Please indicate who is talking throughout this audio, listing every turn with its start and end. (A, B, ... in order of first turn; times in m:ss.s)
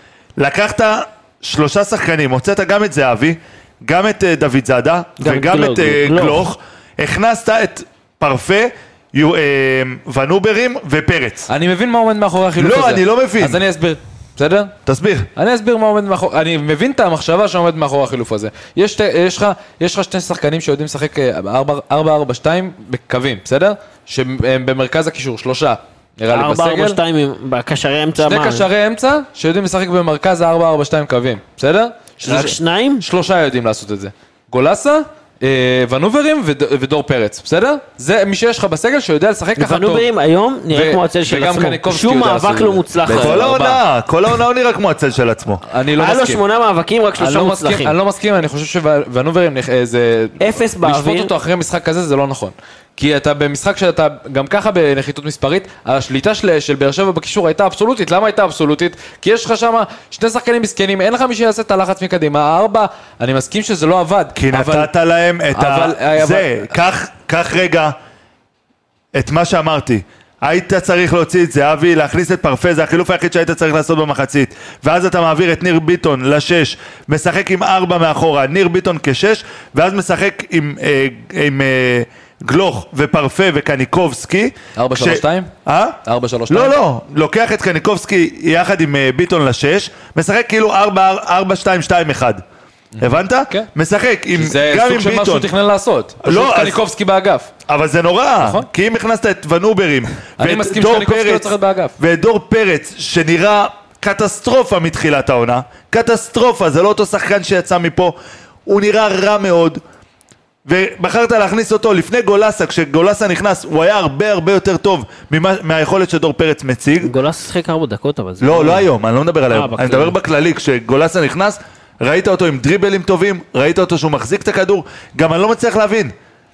0:00.4-0:11.5 A
0:05.2-0:06.5 B
0:11.5-0:14.7 C
0:12.6-0:13.6 A
0:14.9-0:15.3 A
0:15.4-0:27.0 C
0:26.3-0:28.7 B
0:28.2-0:40.1 C
0:32.2-0:33.0 B
0:39.6-0:43.8 B
0:40.7-0:43.8 C
0:43.1-0:45.6 A
0:45.6-0:46.4 C
0:46.0-0:48.0 B
0:47.2-1:04.9 C
0:50.4-0:51.3 B
1:04.4-1:08.0 A
1:05.5-1:06.7 C
1:09.1-1:26.0 A
1:24.8-1:25.5 C
1:26.0-1:26.8 C
1:26.5-1:32.4 A
1:33.0-1:33.7 C
1:33.0-1:35.5 A
1:34.3-1:37.5 C
1:36.2-1:36.8 A
1:37.7-1:49.8 A
1:38.4-1:38.7 C
1:40.4-1:42.0 C
1:50.7-1:57.1 A
1:57.0-1:58.9 B
1:58.4-2:06.1 A
1:59.5-2:00.2 B